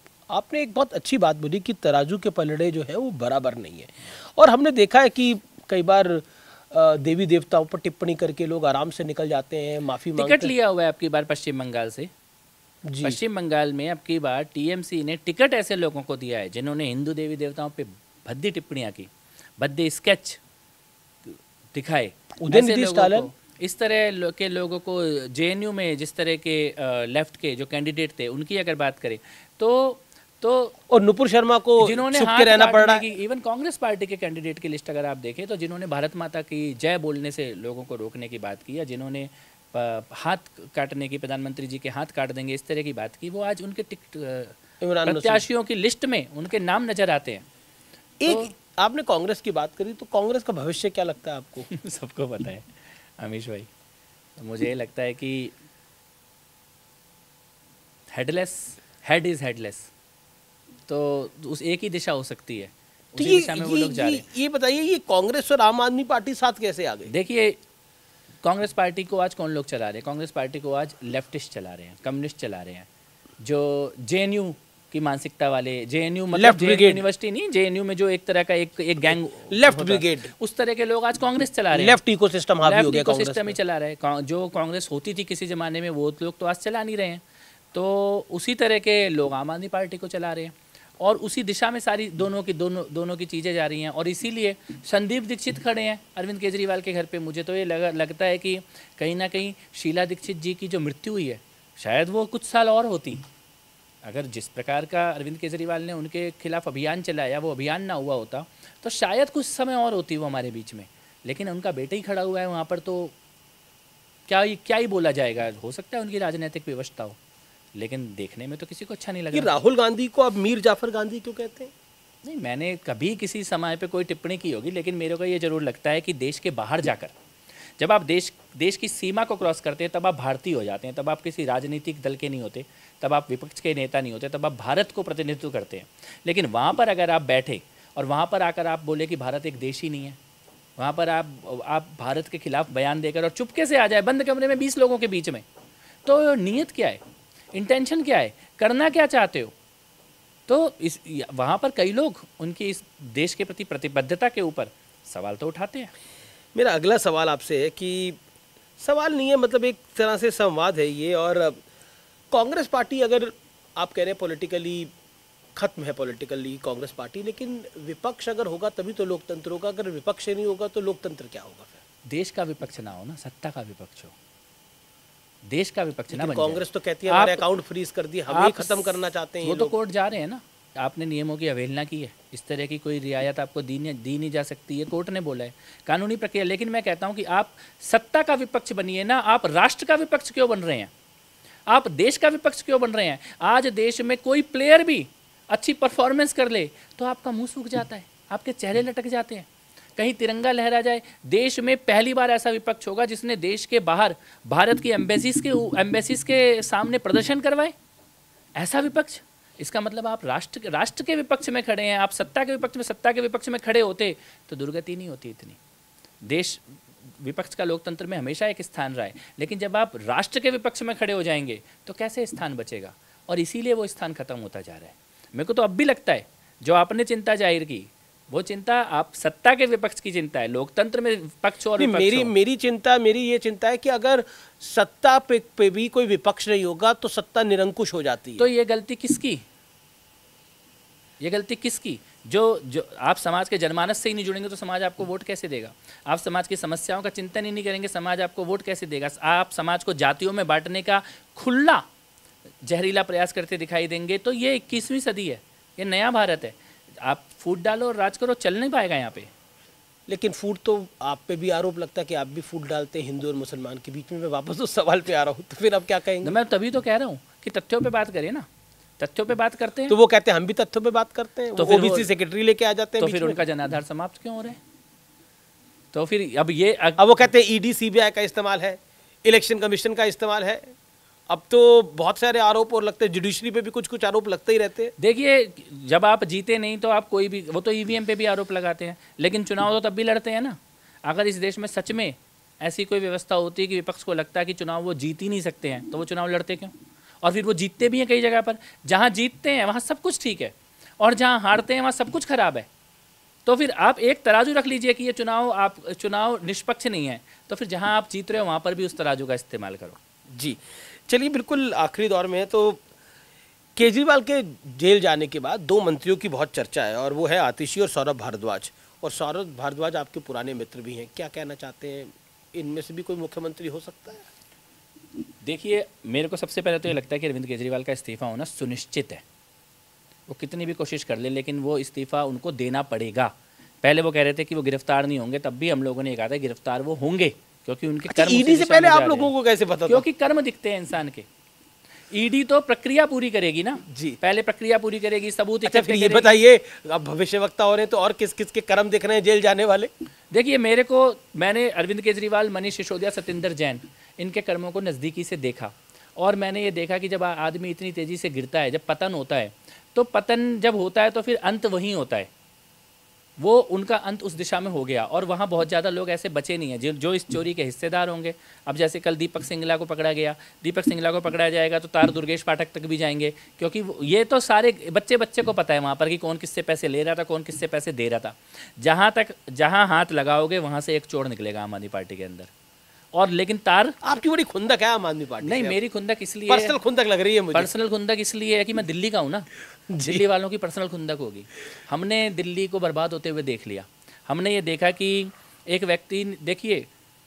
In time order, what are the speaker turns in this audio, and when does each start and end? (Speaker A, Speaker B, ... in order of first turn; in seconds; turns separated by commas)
Speaker A: 0.3-10.5, Speaker B: 10.2-12.1, Speaker A: 12.8-13.2, Speaker B: 13.0-20.4, Speaker B: 21.2-30.8, Speaker A: 22.4-23.3, Speaker A: 30.9-33.0, Speaker B: 31.8-47.4, Speaker A: 44.8-45.4, Speaker A: 48.2-51.7, Speaker B: 51.7-53.7, Speaker B: 54.4-55.5, Speaker B: 58.1-59.9, Speaker B: 60.9-64.2, Speaker A: 63.2-67.1, Speaker B: 67.1-67.6, Speaker B: 68.4-72.9, Speaker B: 73.4-82.0, Speaker A: 76.3-77.0, Speaker A: 79.5-80.3, Speaker A: 81.7-83.5, Speaker B: 82.6-103.2, Speaker B: 104.0-113.1, Speaker B: 114.3-117.2, Speaker B: 117.7-119.5, Speaker A: 119.3-121.7, Speaker B: 122.2-127.2, Speaker B: 127.8-140.2, Speaker B: 140.8-145.4, Speaker B: 146.0-147.0, Speaker B: 147.5-149.5, Speaker B: 150.5-155.9, Speaker A: 156.5-158.2, Speaker A: 158.8-161.6, Speaker A: 162.3-164.9, Speaker A: 165.6-171.8, Speaker B: 172.1-174.2, Speaker B: 175.4-177.4, Speaker A: 176.1-179.7, Speaker B: 178.3-190.9, Speaker B: 191.7-207.7, Speaker B: 208.6-215.6, Speaker B: 216.2-216.7, Speaker B: 217.2-232.3, Speaker A: 231.8-238.5, Speaker B: 238.4-239.4, Speaker B: 241.2-251.8, Speaker B: 252.6-259.3, Speaker A: 260.1-266.3, Speaker B: 266.2-268.5, Speaker B: 269.0-269.9, Speaker A: 269.9-273.4, Speaker B: 271.6-272.1, Speaker B: 273.0-274.6, Speaker B: 275.9-277.0, Speaker A: 277.0-280.7, Speaker A: 281.3-284.9, Speaker B: 285.0-302.7, Speaker B: 303.4-310.0, Speaker A: 310.3-312.8, Speaker A: 313.8-324.3, Speaker B: 325.4-329.2, Speaker B: 330.3-339.3, Speaker A: 338.1-340.0, Speaker B: 339.9-341.3, Speaker B: 342.1-346.3, Speaker A: 343.9-344.2, Speaker A: 345.6-349.9, Speaker B: 350.3-362.3, Speaker B: 363.4-382.5, Speaker B: 383.1-384.0, Speaker A: 384.0-385.8, Speaker B: 385.4-386.8, Speaker A: 386.5-387.7, Speaker B: 387.5-389.5, Speaker A: 389.9-390.2, Speaker B: 390.0-396.9